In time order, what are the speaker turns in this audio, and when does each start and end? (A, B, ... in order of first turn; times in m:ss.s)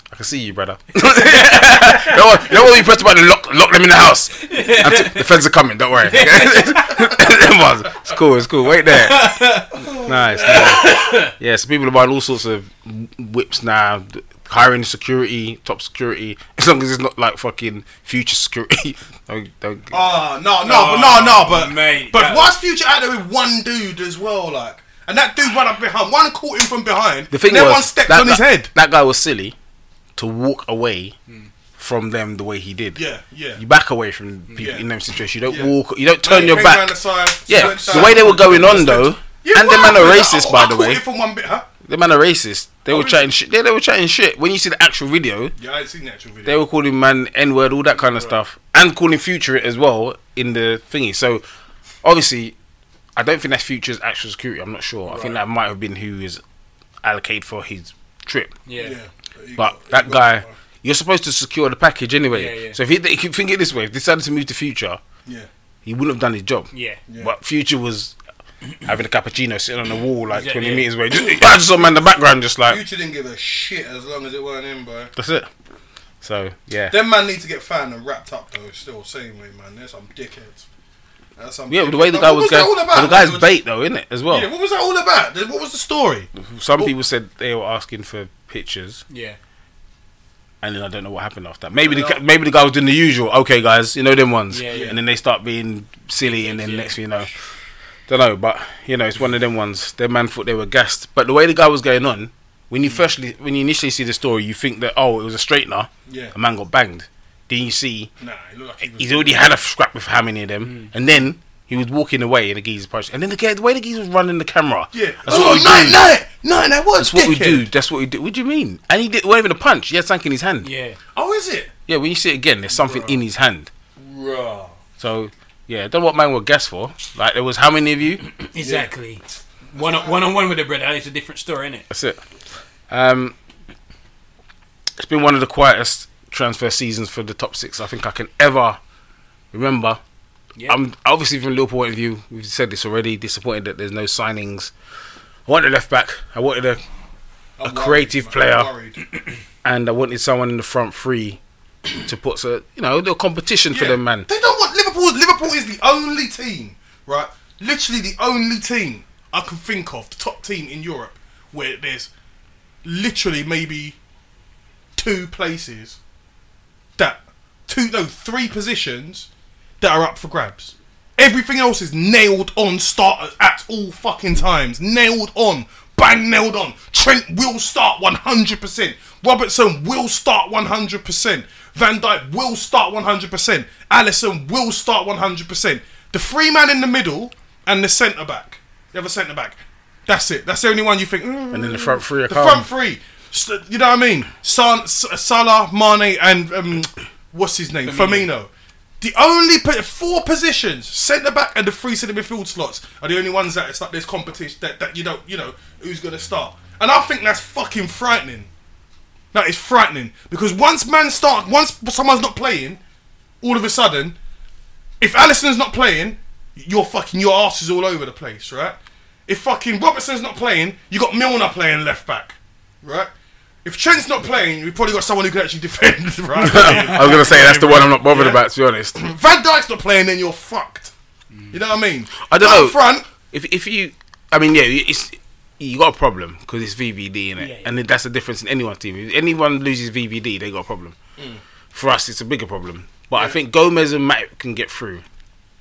0:00.1-0:09.3 A
0:01.1-0:02.4 B
0:04.4-0:05.3 B
0:06.0-0:07.1 B
0:08.9-0:11.3 B
0:09.8-0:10.9 C
0:10.0-0:20.0 A
0:19.9-0:28.7 C
0:20.6-0:22.5 B
0:27.3-0:29.6 A
0:30.2-0:31.1 A
0:31.8-0:33.0 A
0:33.0-0:33.6 C
0:33.6-0:37.0 A
0:34.6-0:34.9 C
0:35.4-0:41.7 C
0:37.5-0:41.0 A
0:37.5-0:38.4 B
0:41.8-0:45.5 A
0:42.9-0:43.3 C
0:45.6-0:46.6 C
0:46.5-0:51.4 A
0:52.0-0:52.6 A
0:53.2-0:56.4 A
0:55.1-0:55.4 B
0:57.0-0:58.6 A
0:58.7-0:59.0 B
0:58.8-1:00.5 C
0:59.6-1:05.0 A
1:02.3-1:02.8 B
1:05.8-1:06.7 A
1:06.7-1:07.0 B
1:07.1-1:07.3 C
1:07.2-1:08.2 A
1:08.9-1:12.8 A
1:10.3-1:10.9 B
1:12.7-1:15.1 C
1:15.2-1:15.5 A
1:16.2-1:17.0 A
1:16.9-1:20.7 C
1:21.4-1:23.5 C
1:21.7-1:24.5 A
1:24.3-1:26.9 C
1:26.4-1:29.0 A
1:29.1-1:29.4 B
1:30.6-1:37.3 A
1:31.8-1:32.2 C
1:34.5-1:35.0 B
1:34.7-1:35.0 C
1:36.2-1:37.0 B
1:38.1-1:48.1 A
1:46.1-1:46.4 C
1:48.2-1:49.5 C
1:48.9-1:56.1 A
1:50.6-1:50.9 B
1:54.9-1:57.7 C
1:57.0-2:00.7 A
2:00.6-2:01.0 B
2:01.2-2:01.7 C
2:01.9-2:03.7 A
2:02.7-2:03.2 C
2:04.0-2:04.8 C
2:05.0-2:08.2 A
2:08.3-2:11.9 B
2:08.6-2:08.9 C
2:09.8-2:10.2 C
2:11.9-2:12.2 A
2:12.9-2:13.4 A
2:15.0-2:18.8 A
2:19.5-2:20.0 A
2:20.7-2:24.7 A
2:25.5-2:26.8 A
2:27.6-2:29.0 C
2:27.6-2:28.7 A
2:29.6-2:31.4 A
2:32.0-2:34.3 A
2:33.7-2:42.1 C
2:42.8-2:44.0 C
2:45.0-2:46.0 C
2:47.0-2:49.3 C
2:49.8-3:28.5 C
3:11.5-3:12.7 A
3:17.9-3:18.3 B
3:29.3-3:32.8 C
3:33.4-3:34.2 C
3:35.0-3:43.1 C
3:43.6-3:48.4 C
3:46.4-3:49.0 A
3:46.4-3:47.2 B
3:48.9-3:50.9 C
3:51.5-3:53.1 C
3:52.2-4:01.0 A
3:57.4-3:57.7 B
4:01.7-4:05.0 A
4:03.1-4:03.4 C